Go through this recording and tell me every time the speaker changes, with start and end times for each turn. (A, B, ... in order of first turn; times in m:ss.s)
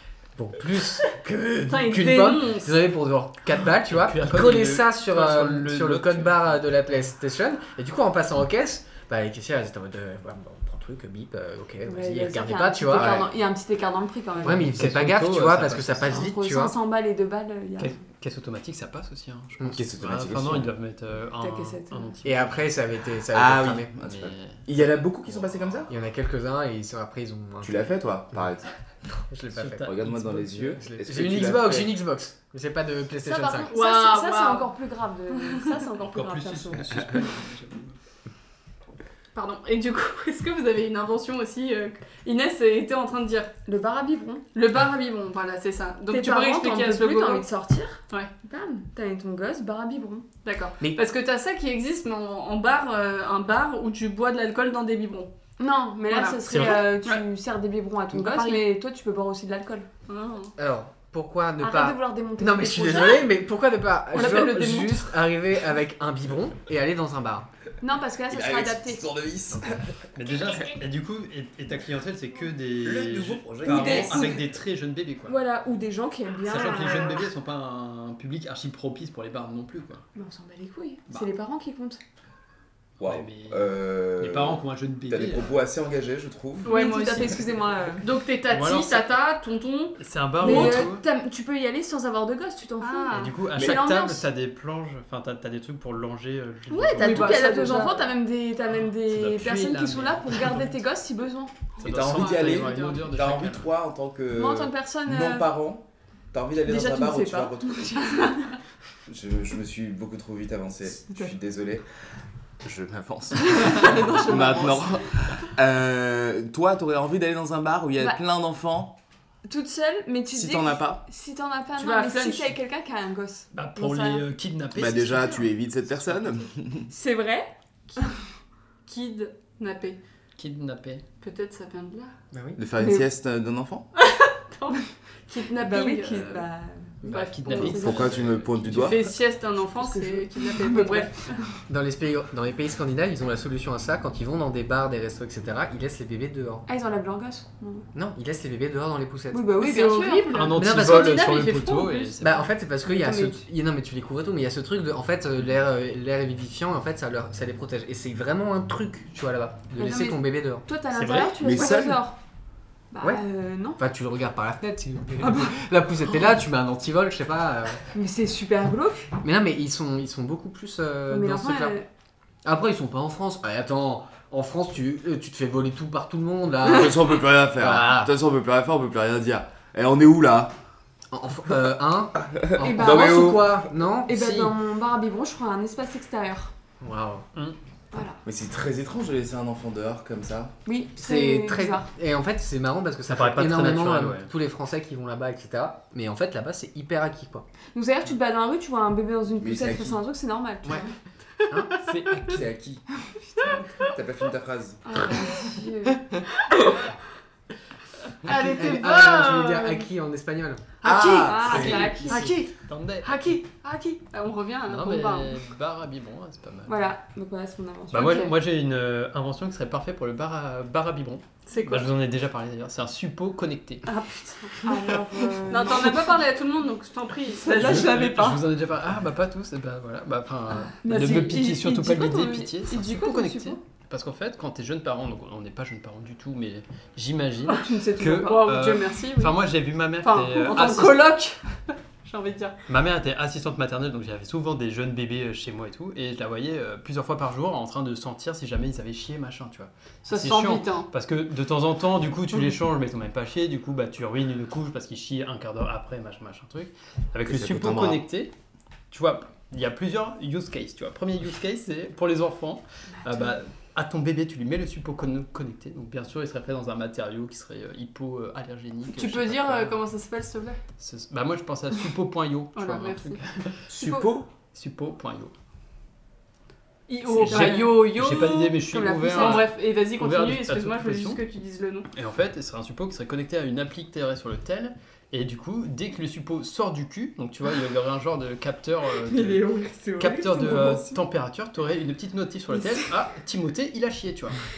0:00.4-0:13.3 A
0:01.7-0:02.8 B
0:03.8-0:06.5 C
0:11.8-0:14.8 D
0:12.9-0:13.2 C
0:14.4-0:16.3 C
0:14.4-0:16.7 A
0:16.0-0:18.0 D
0:17.8-0:22.5 C
0:19.7-0:20.7 E
0:21.4-0:22.1 D
0:22.2-0:23.9 A
0:23.3-0:25.9 E
0:24.0-0:24.7 C
0:25.2-0:25.8 C
0:25.9-0:27.9 A
0:27.6-0:28.7 E
0:29.3-0:33.7 A
0:29.5-0:30.8 C
0:29.8-0:31.9 E
0:33.2-0:37.2 D
0:33.7-0:34.7 B
0:36.1-0:38.0 C
0:39.3-0:43.5 B
0:43.6-0:44.4 D
0:44.5-0:47.4 B
0:46.1-0:50.2 D
0:50.4-0:55.3 B
0:55.6-0:59.9 D
0:56.1-0:57.2 B
0:56.5-0:56.9 C
0:58.1-0:58.6 B
1:00.1-1:00.5 B
1:00.6-1:07.5 A
1:01.6-1:03.3 D
1:04.1-1:05.1 B
1:07.8-1:09.1 D
1:08.3-1:09.9 E
1:09.5-1:15.4 C
1:12.8-1:14.4 E
1:13.6-1:14.4 D
1:15.2-1:17.2 D
1:16.4-1:20.0 C
1:20.1-1:22.0 D
1:23.0-1:26.7 E
1:23.0-1:25.6 C
1:26.6-1:27.4 B
1:26.6-1:28.0 D
1:28.0-1:30.9 B
1:28.5-1:29.1 C
1:30.0-1:31.0 C
1:30.4-1:34.3 D
1:32.8-1:33.7 B
1:33.1-1:37.6 C
1:36.7-1:38.1 B
1:37.0-1:41.5 D
1:39.0-1:40.8 C
1:41.8-1:43.1 B
1:41.8-1:43.7 C
1:41.8-1:48.3 E
1:44.3-1:45.5 D
1:46.6-1:48.6 D
1:49.1-1:51.8 E
1:52.6-1:58.9 E
1:53.5-1:54.9 B
1:53.7-1:54.8 D
1:59.4-2:04.2 D
2:00.3-2:01.0 E
2:01.8-2:02.5 B
2:03.5-2:05.5 C
2:04.7-2:06.9 E
2:06.9-2:08.2 D
2:08.8-2:10.0 B
2:10.4-2:11.0 C
2:11.2-2:12.1 B
2:12.3-2:12.6 A
2:12.6-2:13.9 E
2:14.0-2:16.4 B
2:15.6-2:18.2 D
2:17.0-2:18.1 B
2:17.0-2:19.0 C
2:17.6-2:19.0 E
2:18.7-2:21.4 B
2:19.7-2:21.5 D
2:21.7-2:26.6 A
2:26.7-2:27.8 D
2:27.9-2:29.5 A
2:29.3-2:30.3 D
2:29.6-2:32.1 B
2:30.3-2:32.5 C
2:30.5-2:31.4 A
2:32.2-2:40.6 A
2:32.9-2:33.3 D
2:39.8-2:42.2 D
2:40.9-2:41.3 C
2:41.4-2:42.0 E
2:42.9-2:43.8 D
2:43.8-2:47.9 A
2:45.2-2:45.6 D
2:47.9-2:49.1 D
2:49.2-2:51.8 A
2:51.1-2:51.9 D
2:52.4-2:58.1 A
2:56.7-3:00.5 E
3:01.1-3:04.5 A
3:02.2-3:03.6 E
3:02.6-3:03.4 D
3:04.1-3:06.5 D
3:06.8-3:07.2 A
3:07.9-3:08.2 D
3:08.2-3:10.5 E
3:10.6-3:11.9 D
3:11.0-3:17.4 A
3:13.1-3:14.3 C
3:17.7-3:20.9 D
3:19.4-3:20.0 E
3:21.5-3:21.7 A
3:21.8-3:22.4 C
3:22.3-3:22.8 E
3:23.4-3:23.8 B
3:23.9-3:24.8 E
3:24.9-3:26.1 D
3:24.9-3:25.5 B
3:26.4-3:26.8 B
3:28.2-3:29.8 B
3:28.2-3:30.7 A
3:30.8-3:32.2 E
3:30.8-3:35.4 B
3:30.8-3:32.4 D
3:31.4-3:33.4 C
3:34.7-3:36.7 C
3:36.6-3:38.3 D
3:37.9-3:43.9 C
3:37.9-3:38.3 B
3:41.5-3:41.9 B
3:43.8-3:48.4 B
3:44.6-3:46.1 D
3:47.4-3:48.3 D
3:47.5-4:01.1 C
3:50.8-3:53.5 D
3:52.4-3:53.5 B
3:57.5-3:58.7 D
3:58.2-3:59.4 B
4:00.0-4:02.6 B
4:02.7-4:18.3 C
4:10.0-4:10.9 B
4:17.3-4:18.0 E
4:18.9-4:29.8 C
4:28.9-4:30.6 B
4:30.8-4:33.6 C
4:32.6-4:33.2 B
4:33.7-4:34.3 E
4:33.7-4:34.1 D
4:34.5-4:35.3 C
4:36.9-4:41.9 B
4:37.1-4:41.2 C
4:37.3-4:37.6 D
4:38.7-4:39.5 D
4:41.9-4:54.4 C
4:49.0-4:51.0 D